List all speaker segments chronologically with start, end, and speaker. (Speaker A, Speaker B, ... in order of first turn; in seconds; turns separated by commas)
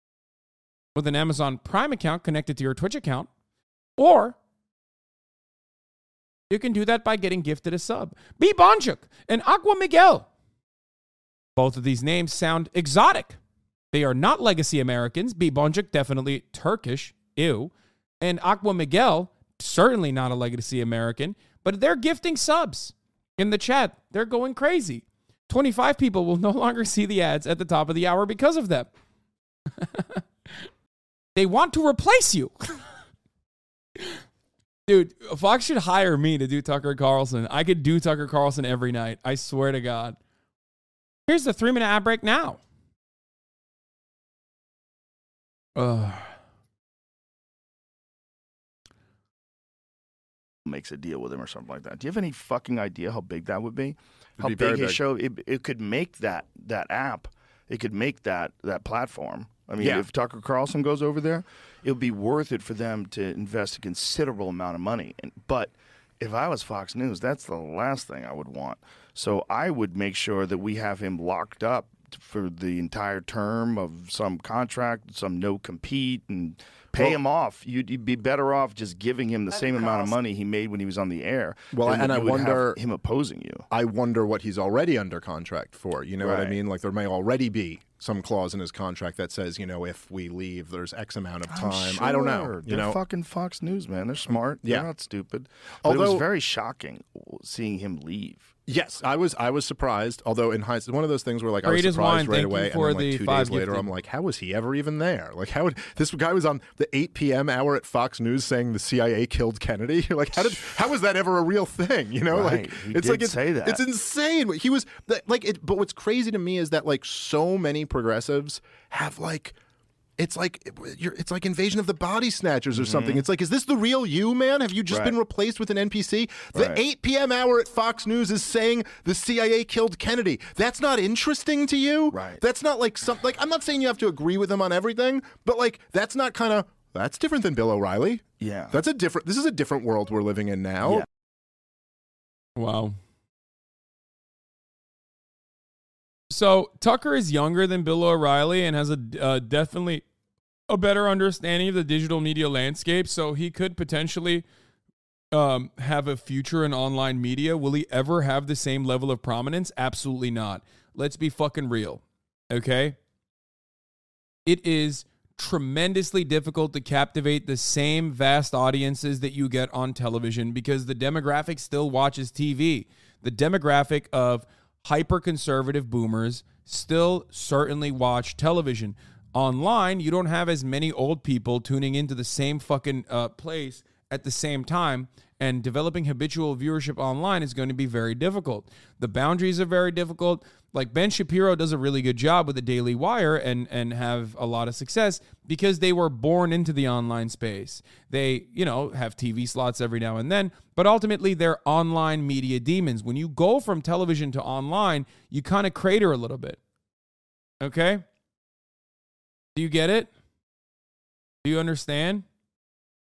Speaker A: 0.9-3.3, Speaker A: 4.0-4.4, Speaker A: 6.5-10.3, Speaker A: 11.6-13.4, Speaker A: 13.9-28.9, Speaker A: 29.8-30.2, Speaker A: 31.4-32.9, Speaker A: 34.9-40.2, Speaker A: 41.3-42.6, Speaker A: 45.8-46.4, Speaker B: 50.6-83.7, Speaker C: 54.4-55.0, Speaker C: 59.8-60.1, Speaker C: 76.9-77.2, Speaker C: 81.7-82.8, Speaker C: 83.7-93.0, Speaker B: 86.2-86.6, Speaker B: 91.5-98.5, Speaker C: 95.8-96.2, Speaker C: 98.7-119.5, Speaker A: 101.6-103.9, Speaker B: 112.3-113.8, Speaker C: 120.2-141.0, Speaker B: 122.8-123.2, Speaker B: 124.9-125.2, Speaker B: 126.5-126.8, Speaker B: 132.1-132.4, Speaker B: 138.4-138.8, Speaker A: 142.6-143.0, Speaker A: 146.3-150.0, Speaker A: 150.7-154.4, Speaker A: 155.3-163.0, Speaker A: 164.4-206.6, Speaker A: 207.6-208.0, Speaker A: 209.5-210.1, Speaker A: 211.4-212.2